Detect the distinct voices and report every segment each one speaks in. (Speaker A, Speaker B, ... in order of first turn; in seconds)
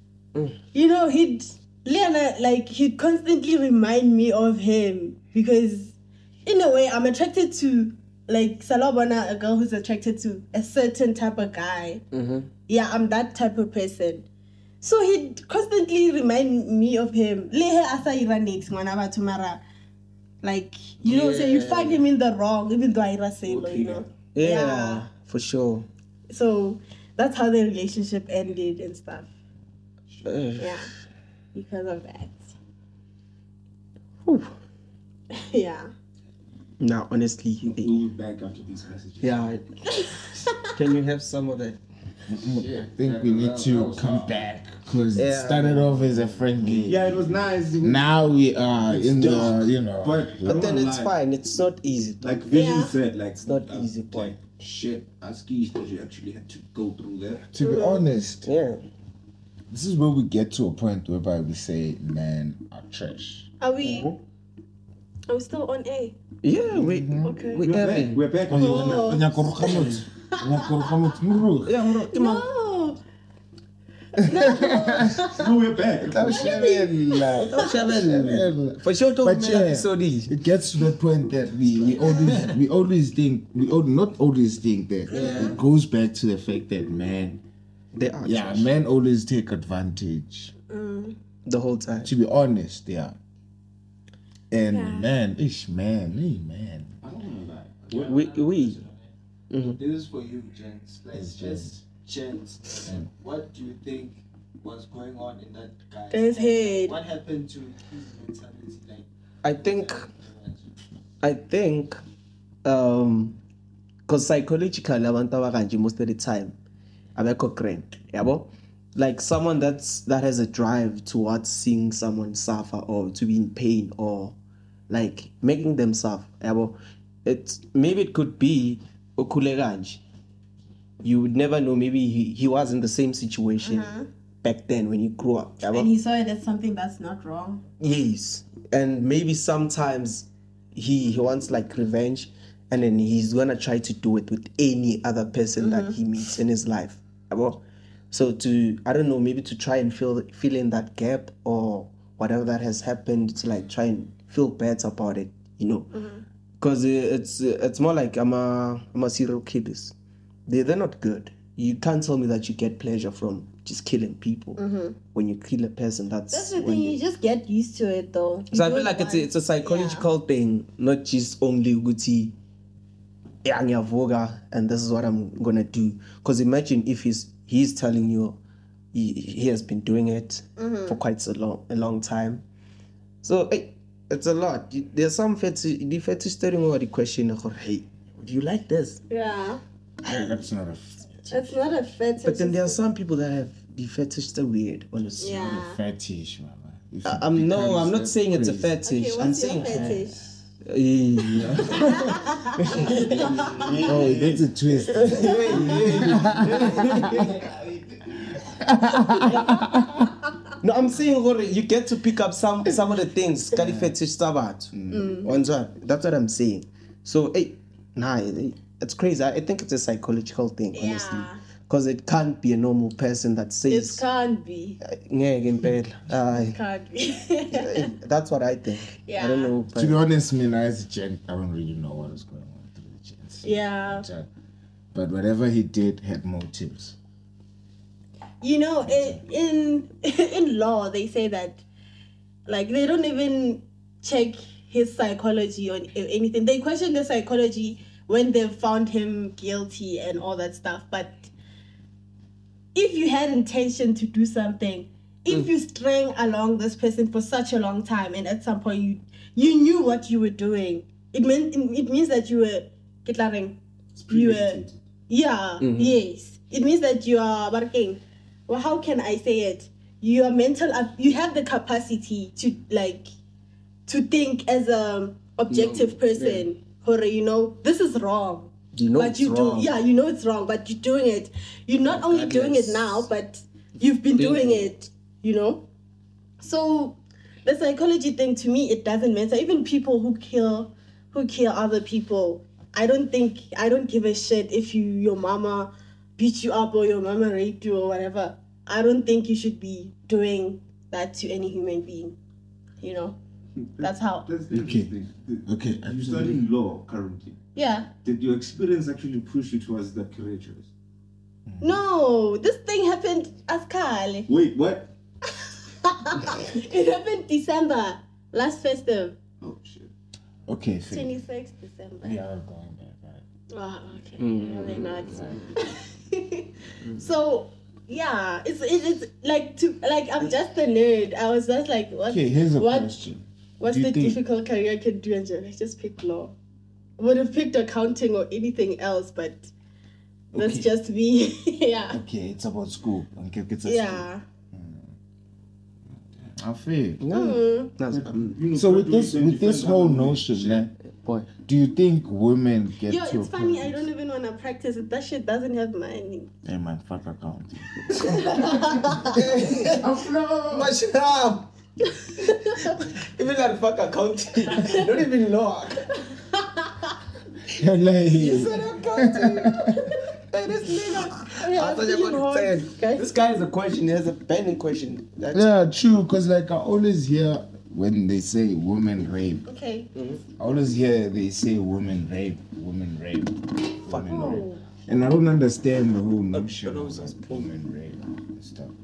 Speaker A: 0.7-12.0, 12.7-14.3, 14.8-19.6, 20.4-25.1, 26.3-29.3, 30.6-30.9, 31.5-32.5, 35.3-35.9, 39.9-40.7, 52.5-53.0, 57.6-58.1, 63.6-64.1, 65.3-66.2, 67.2-67.7, 68.6-69.7, 70.3-70.9, 72.1-73.0, 74.2-75.5, 76.2-77.7, 85.1-85.6, 90.7-91.2, 94.7-95.1, 106.1-107.0, 133.6-134.1, 135.7-137.7, 145.6-145.9, 155.9-156.2, 164.6-165.0, 166.3-170.1, 180.6-181.0, 189.1-189.6, 191.3-192.8, 195.2-195.8, 198.8-200.2, 201.6-203.7, 205.0-205.7, 208.9-209.9, 214.9-215.3, 220.7-221.4, 223.7-224.8, 226.5-227.9, 229.0-229.5, 233.4-234.1, 238.4-241.6, 242.5-251.3, 252.7-273.1, 273.9-285.6, 286.4-302.2, 302.8-303.2, 303.8-304.3, 307.6-307.9, 311.6-314.3, 315.5-319.2, 320.9-322.2, 323.5-332.9, 333.6-336.4, 337.0-339.5, 340.3-342.0, 343.6-344.2, 347.1-347.7, 352.9-356.3, 357.9-359.2, 362.0-362.8, 364.6-364.8, 366.0-366.9, 368.2-373.1, 379.5-379.9, 384.1-384.6
Speaker B: 12.1-12.5, 21.0-22.1, 24.3-25.9, 30.2-31.0, 34.2-34.5, 36.8-38.0, 39.2-39.6, 40.6-41.8, 45.1-46.1, 49.2-49.6, 50.5-52.5, 53.4-54.4, 58.4-58.8, 63.8-64.2, 66.4-68.3, 69.5-70.0, 71.6-72.5, 77.4-80.3, 85.1-85.5, 87.9-88.7, 91.5-92.1, 98.1-98.8, 99.5-99.8, 109.4-110.1, 111.2-112.0, 112.7-113.4, 114.1-116.6, 117.2-124.4, 124.9-130.0, 131.0-133.9, 134.4-135.9, 137.8-155.9, 156.6-159.9, 160.5-164.6, 165.1-167.0, 168.5-172.3, 173.4-178.4, 178.9-182.4, 183.2-189.0, 192.2-195.6, 197.1-200.1, 200.7-202.0, 202.6-207.5, 210.6-224.0, 224.8-226.6, 227.5-230.0, 265.6-266.0, 275.5-276.5, 278.8-279.7, 281.9-283.1, 284.2-284.7, 324.2-325.5, 347.0-348.4, 350.9-351.3, 359.1-359.9, 360.5-361.5, 362.6-365.9, 368.1-369.6, 370.3-375.5, 379.9-380.2, 383.9-384.1, 386.3-387.5
Speaker C: 23.5-24.1, 37.6-39.6, 46.7-48.2, 48.9-51.1, 52.2-57.5, 67.6-69.4, 75.2-76.7, 97.0-98.1, 203.7-204.4, 263.9-264.8, 303.6-307.4, 308.0-310.7, 314.3-314.9, 319.4-319.9, 347.9-350.7
Speaker D: 42.3-50.7, 57.5-58.5, 59.7-63.5, 66.7-67.4, 68.5-71.8, 74.2-75.2, 76.0-87.4, 88.2-90.5, 92.0-93.2, 94.5-96.9, 101.1-101.7, 190.0-191.6, 195.3-198.7, 201.4-201.9, 203.8-207.5, 208.1-210.1, 213.6-213.9, 214.8-215.2, 229.8-234.3, 234.9-236.9, 238.8-239.2, 304.5-304.9, 305.4-306.4, 311.5-311.8, 320.5-321.1, 322.0-323.2, 332.1-334.2, 340.3-340.7, 341.9-344.9, 346.4-347.0, 348.5-350.7, 351.4-353.9, 356.4-360.7, 367.5-369.9, 375.3-379.5, 380.4-388.8
Speaker E: 42.4-44.4, 97.8-99.1, 99.6-110.7